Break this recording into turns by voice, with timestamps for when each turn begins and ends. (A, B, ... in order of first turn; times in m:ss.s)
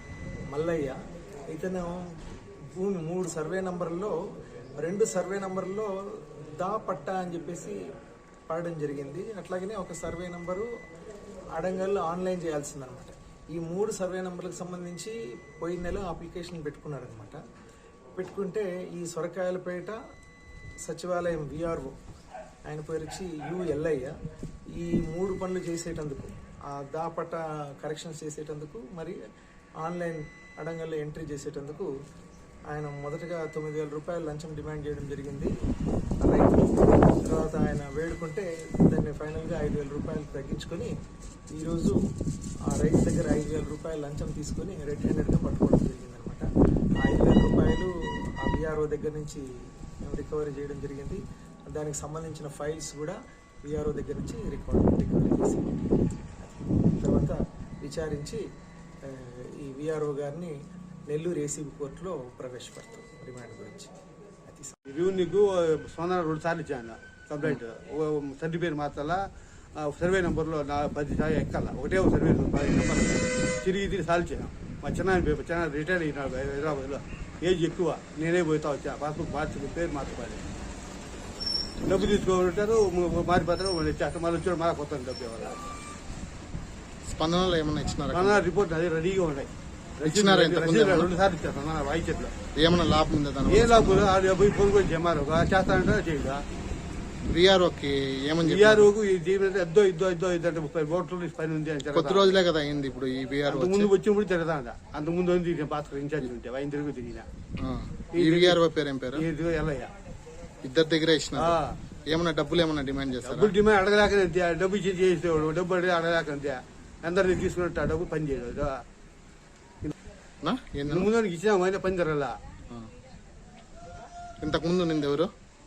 0:00.5-0:01.0 A
0:01.5-0:02.0 A
0:02.8-0:04.2 A
0:04.8-0:05.9 A
0:06.6-0:07.8 A
0:08.5-0:10.7 A
0:11.6-0:17.4 A
0:18.2-0:20.0 A
0:20.8-0:22.0 A
0:22.7-0:24.1 A
0:24.8-0:29.2 A
0:29.8-0:31.9 A
0:32.7-0:35.5 A
0:36.2-0:40.9 A
0:41.6-0:42.0 A
0:42.7-0:46.5 A
0:47.0-0:49.4 A
0:50.0-0:55.9 A
0:56.4-0:58.4 A
0:59.1-1:00.6 A
1:01.1-1:03.9 A
1:04.4-1:04.8 A
1:04.9-1:09.2 B
1:09.8-1:20.4 B
1:21.9-1:25.6 B
1:27.1-1:28.4 C
1:28.1-1:29.5 B
1:30.0-1:31.1 C
1:30.0-1:32.3 B
1:32.6-1:34.1 C
1:33.5-1:36.4 B
1:37.3-1:38.9 C
1:38.4-1:42.4 B
1:41.9-1:43.9 C
1:43.5-1:47.3 B
1:47.6-1:49.3 C
1:48.2-1:48.6 B
1:49.1-1:49.9 B
1:50.6-1:53.5 C
1:51.4-1:51.8 B
1:53.2-1:58.8 B
2:00.4-2:01.1 C
2:00.9-2:02.4 B
2:04.4-2:05.3 C